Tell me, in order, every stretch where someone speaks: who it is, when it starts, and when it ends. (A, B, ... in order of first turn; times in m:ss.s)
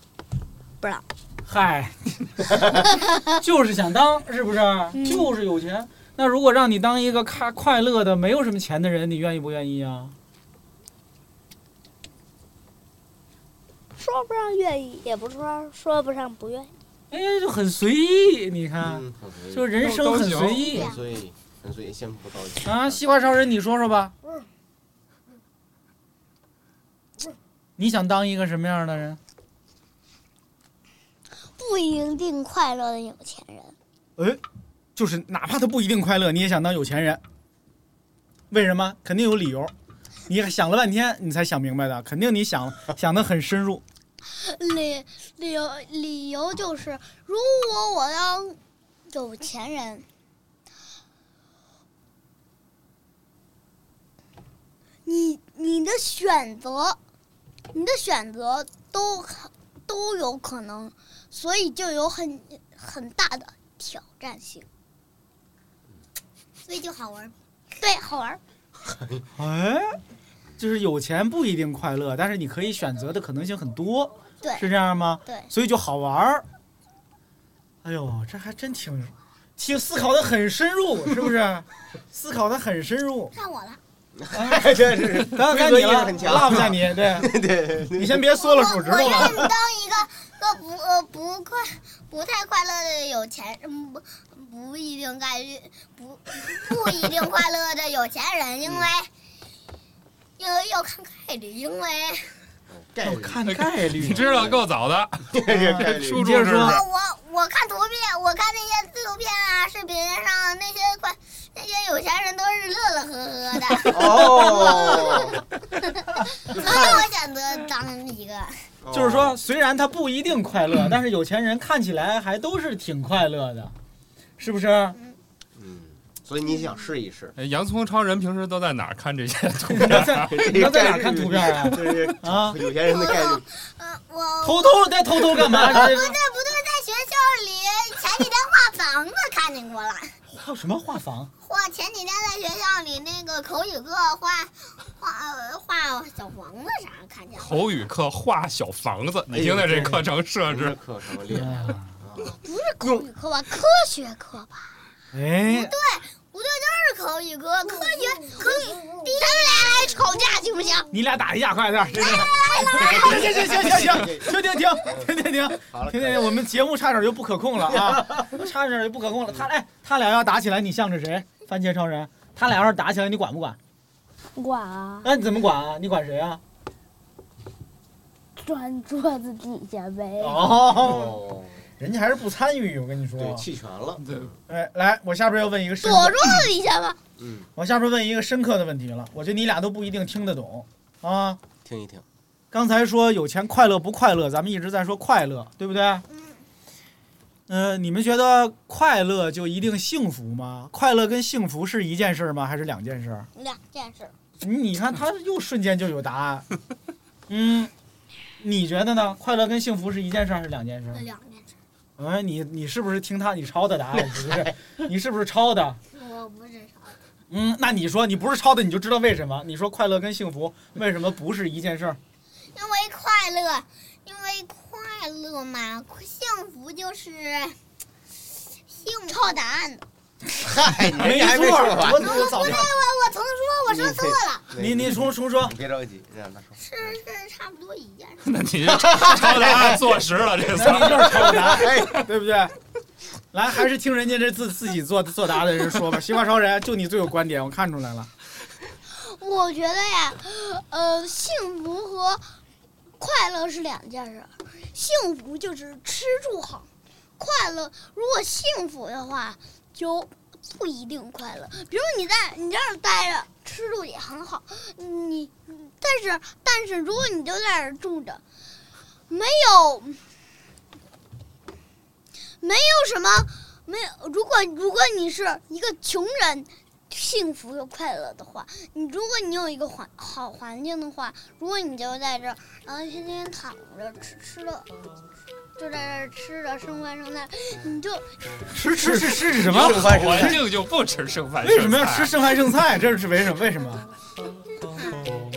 0:01.4-0:01.9 A
0:03.4-0:10.1 A
0:14.0-0:16.7 B
0:17.1-0:19.0 A
0:18.8-0:19.8 C
0:19.5-0:20.9 A
0:19.8-0:20.7 D
0:20.7-0:23.0 C
0:22.6-0:24.1 A
0:27.8-0:29.2 A
0:31.6-0:33.7 E
0:35.0-0:37.2 A
0:38.5-0:39.7 A
0:40.3-0:43.8 A
0:44.3-0:48.6 E
0:49.1-0:50.0 E
0:55.0-0:57.0 E
0:57.7-1:04.7 E
1:06.6-1:07.3 F
1:07.8-1:08.4 E
1:08.8-1:09.2 C
1:09.4-1:10.0 A
1:10.6-1:16.4 A
1:17.8-1:23.3 A
1:23.3-1:23.8 F
1:24.2-1:28.3 C
1:24.3-1:24.7 A
1:25.2-1:27.3 A
1:27.9-1:29.5 A
1:28.4-1:39.1 F
1:29.1-1:29.4 C
1:40.4-1:42.3 F
1:42.7-1:44.6 C
1:43.0-1:44.4 A
1:43.4-1:46.8 D
1:45.3-1:46.3 C
1:45.5-1:46.8 A
1:46.6-1:55.1 F
1:53.9-1:55.4 C
1:54.0-1:55.2 A
1:56.5-1:58.6 F
1:56.5-1:57.0 C
1:58.8-1:59.4 C
1:58.9-2:03.7 A
2:04.4-2:05.0 A
2:05.6-2:07.4 C
2:07.4-2:10.3 D
2:09.7-2:12.6 A
2:09.8-2:13.4 C
2:12.8-2:20.1 F
2:14.4-2:16.2 A
2:15.4-2:15.8 C
2:20.3-2:21.3 A
2:21.4-2:27.6 F
2:27.4-2:30.8 D
2:29.3-2:33.0 C
2:31.3-2:31.9 A
2:32.4-2:34.7 E
2:35.1-2:35.7 A
2:35.5-2:39.9 F
2:38.2-2:40.9 E
2:40.9-2:53.6 A
2:42.4-2:42.9 F
2:42.8-2:46.4 C
2:47.6-2:48.3 C
2:54.4-2:55.1 B
2:55.0-2:56.4 A
2:58.4-3:00.5 B
3:00.2-3:01.2 A
3:00.7-3:01.7 C
3:01.8-3:03.4 A
3:03.2-3:04.3 C
3:04.0-3:04.3 D
3:04.5-3:06.5 A
3:05.8-3:07.0 E
3:07.2-3:07.5 C
3:07.6-3:11.4 A
3:11.6-3:12.0 C
3:12.5-3:16.0 A
3:16.1-3:16.4 F
3:17.5-3:23.3 A
3:23.4-3:24.1 F
3:23.4-3:24.1 E
3:24.4-3:26.4 A
3:27.3-3:27.7 A
3:28.4-3:31.0 A
3:31.1-3:31.5 F
3:32.0-3:35.8 A
3:34.1-3:34.4 C
3:35.9-3:37.0 F
3:37.3-3:42.0 A
3:42.5-3:47.6 F
3:48.7-3:49.4 F
3:49.1-3:49.8 E
3:50.4-3:52.6 C
3:50.7-3:52.7 A
3:52.0-3:54.4 F
3:53.7-3:57.0 C
3:54.6-3:55.5 A
3:56.6-3:58.2 F
3:58.2-4:01.4 D
3:58.7-4:00.0 C
4:00.6-4:02.5 A
4:00.6-4:02.1 C
4:03.3-4:08.1 A
4:08.9-4:12.2 E
4:13.0-4:28.2 E
4:29.1-4:30.0 E
4:32.4-4:44.6 E
4:45.6-4:48.1 E
4:48.5-4:50.4 A
4:48.8-4:50.4 C
4:49.5-4:52.1 D
4:51.4-4:53.8 A